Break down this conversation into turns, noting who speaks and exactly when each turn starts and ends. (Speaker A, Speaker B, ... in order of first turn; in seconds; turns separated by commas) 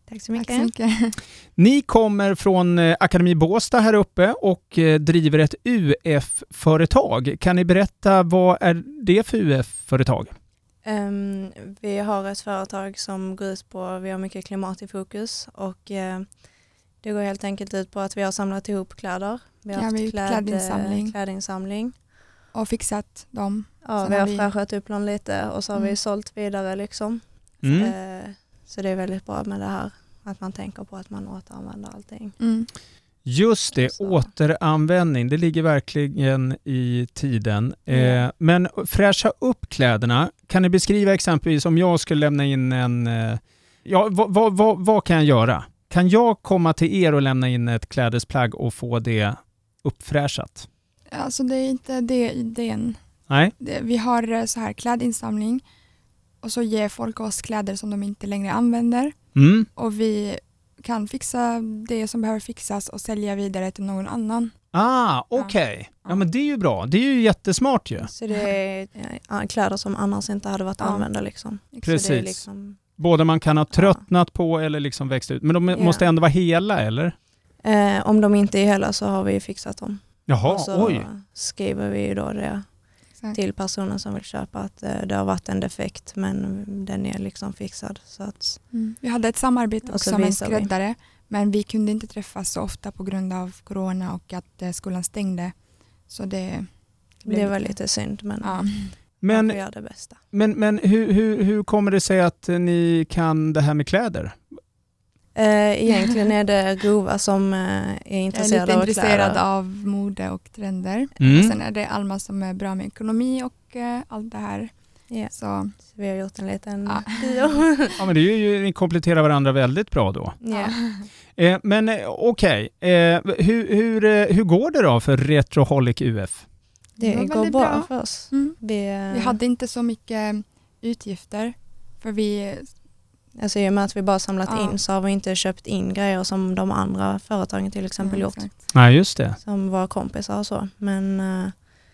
Speaker A: 0.1-0.7, Speaker B: 0.3-1.1, Speaker C: 1.6-10.3, Speaker A: 10.8-16.3, Speaker A: 17.0-21.9, Speaker B: 19.7-21.1, Speaker B: 22.5-24.5, Speaker A: 23.8-32.3, Speaker C: 27.6-27.9, Speaker B: 32.4-32.7, Speaker C: 33.2-50.7, Speaker A: 33.7-34.2, Speaker A: 37.9-38.2, Speaker B: 51.1-53.0, Speaker B: 53.6-55.6, Speaker B: 56.4-59.1, Speaker C: 59.3-59.7, Speaker B: 59.8-64.5, Speaker C: 64.7-68.1, Speaker B: 65.3-66.2, Speaker A: 68.1-72.8, Speaker B: 70.8-71.1, Speaker C: 71.8-72.4, Speaker C: 73.0-77.1, Speaker A: 73.7-74.0, Speaker A: 75.7-76.0, Speaker A: 77.6-82.6, Speaker C: 80.3-81.0, Speaker A: 83.3-88.6, Speaker B: 88.7-95.5, Speaker A: 89.9-90.7, Speaker B: 96.1-96.7, Speaker A: 97.2-98.6, Speaker B: 97.3-97.7, Speaker B: 98.4-99.0, Speaker C: 99.2-99.6, Speaker A: 99.3-100.2, Speaker C: 100.3-104.4, Speaker A: 105.3-109.4, Speaker B: 108.3-114.7, Speaker C: 111.2-111.5, Speaker B: 115.3-115.8, Speaker A: 115.9-118.0, Speaker B: 116.8-117.5, Speaker C: 118.0-120.3, Speaker A: 120.4-120.8, Speaker B: 120.5-121.1, Speaker C: 121.4-126.4, Speaker A: 127.0-129.4, Speaker B: 127.0-132.7, Speaker A: 133.4-138.7, Speaker B: 134.5-134.8, Speaker B: 138.0-138.6, Speaker C: 138.7-139.4, Speaker A: 139.4-141.6